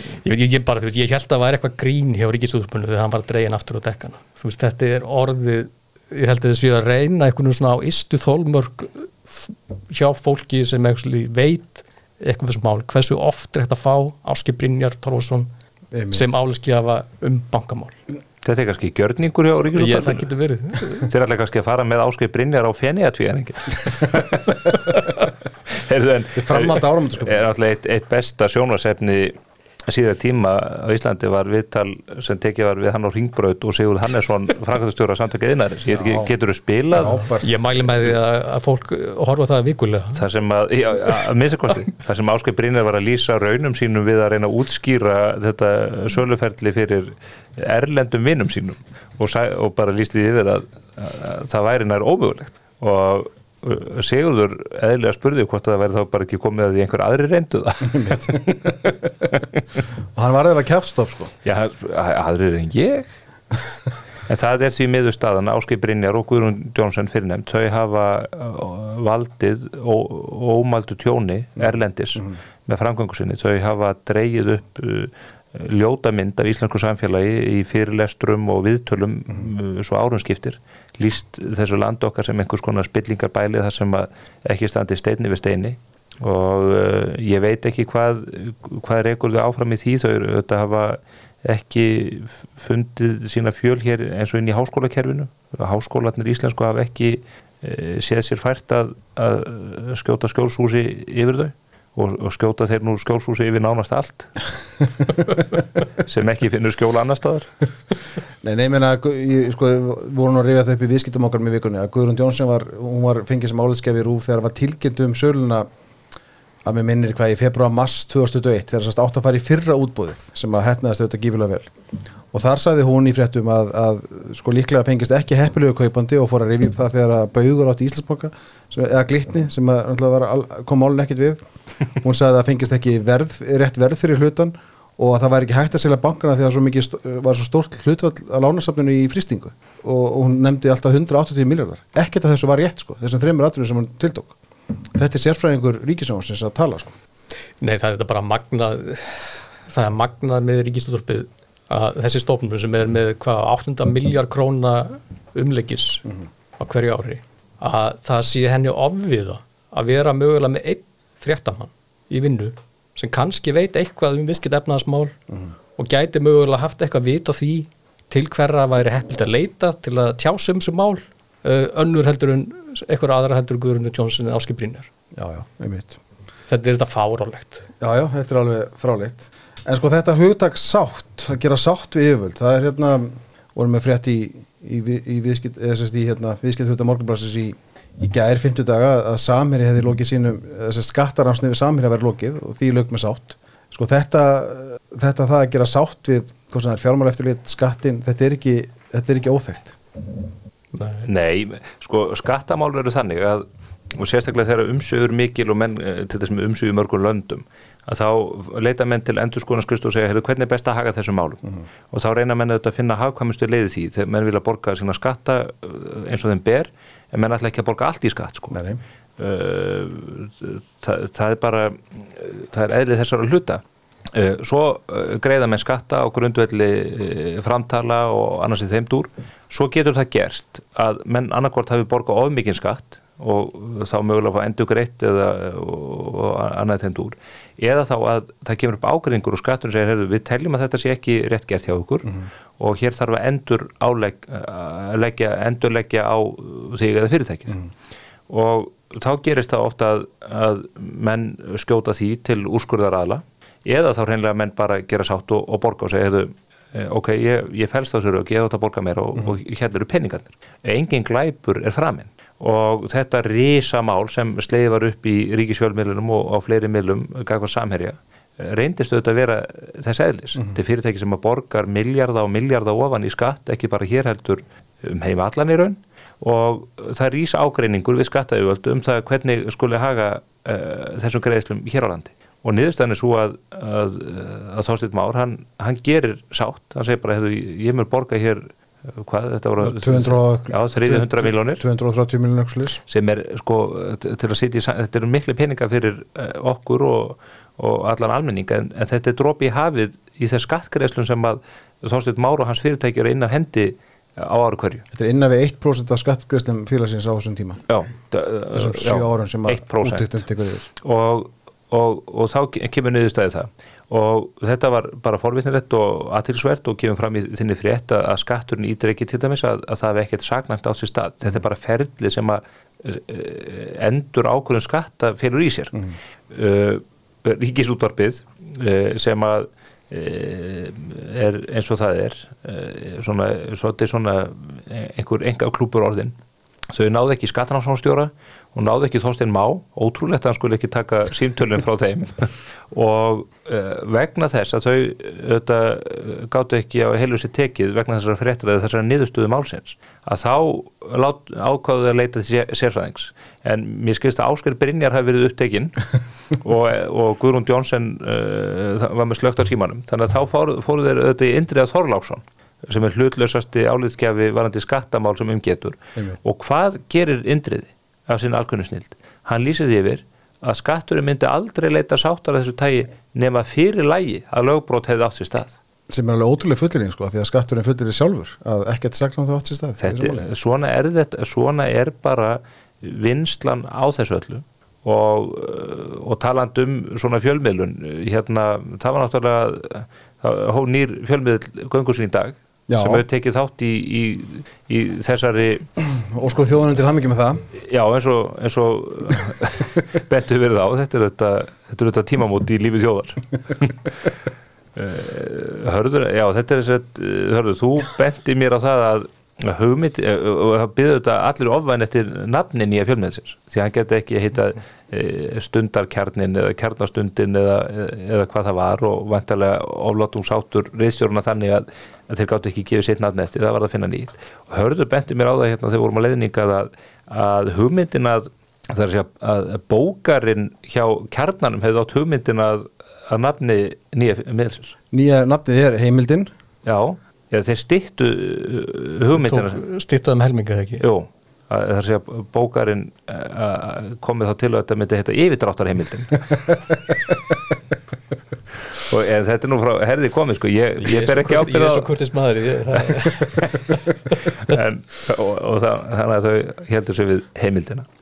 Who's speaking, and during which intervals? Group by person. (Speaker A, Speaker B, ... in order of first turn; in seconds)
Speaker A: 0.1-15.5, 16.1-17.9, 19.8-21.1, 37.1-40.2, 147.6-156.1, 156.6-165.1, 165.8-174.9, 176.5-177.7, 200.7-201.1, 439.1-440.8, 450.8-454.6
Speaker B: 15.9-16.3, 26.4-27.4, 35.9-36.3, 36.9-38.1, 58.0-58.7, 60.1-61.3, 108.4-115.7, 116.6-121.7, 122.3-131.4, 132.0-144.3, 144.9-146.9, 175.1-176.0, 177.8-199.8, 218.5-218.8, 289.6-292.8, 304.9-307.6, 308.5-310.6, 375.9-380.2, 392.7-393.0, 395.8-397.4, 434.9-436.3
Speaker C: 18.4-20.3, 21.0-29.4, 29.9-37.2, 40.1-59.4, 61.4-63.1, 64.3-104.3, 106.0-107.5, 201.0-218.6, 219.2-223.6, 224.1-247.6, 248.3-291.6, 292.9-304.8, 307.7-310.2, 310.8-336.1, 336.7-375.6, 379.8-395.7, 397.6-404.1, 404.8-434.8, 436.6-439.6, 440.8-446.4, 448.7-451.9, 452.9-453.6, 454.4-457.9